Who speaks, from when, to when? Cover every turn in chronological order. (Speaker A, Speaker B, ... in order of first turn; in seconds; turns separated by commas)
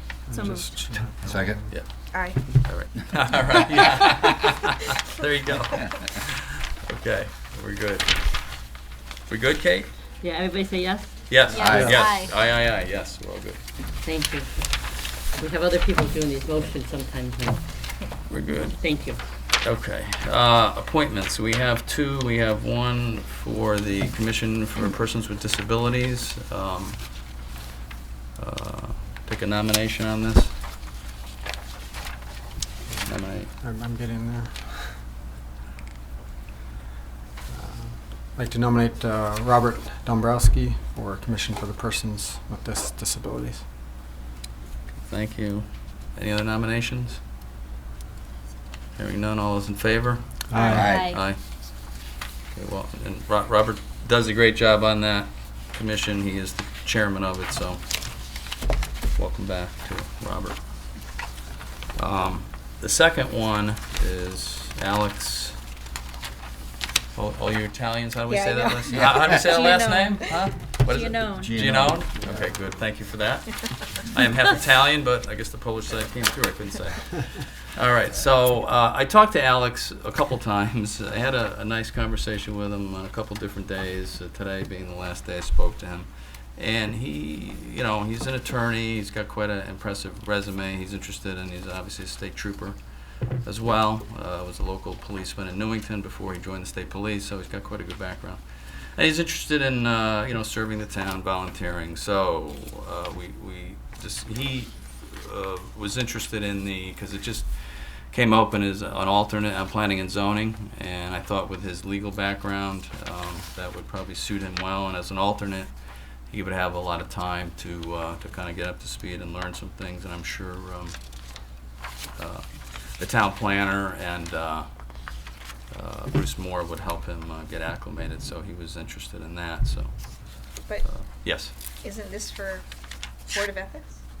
Speaker A: 0.3-1.7, Speaker B: 0.3-0.8, Speaker C: 1.7-8.7, Speaker B: 2.1-2.4, Speaker C: 9.2-9.9, Speaker D: 10.2-11.2, Speaker C: 11.3-13.6, Speaker B: 11.5-12.3, Speaker A: 11.6-12.1, Speaker D: 14.0-17.6, Speaker C: 18.3-19.0, Speaker D: 18.8-19.2, Speaker C: 19.6-27.0, Speaker C: 28.4-30.6, Speaker A: 32.9-35.0, Speaker C: 33.0-33.5, Speaker A: 37.5-43.6, Speaker C: 45.0-47.2, Speaker C: 49.0-51.4, Speaker A: 50.5-51.0, Speaker B: 50.5-51.2, Speaker C: 52.5-58.4, Speaker C: 59.1-61.2, Speaker C: 61.9-65.6, Speaker C: 67.1-92.8, Speaker B: 68.3-71.5, Speaker C: 93.3-115.7, Speaker C: 116.3-121.0, Speaker C: 122.2-131.5, Speaker B: 131.8-132.7, Speaker B: 133.2-134.0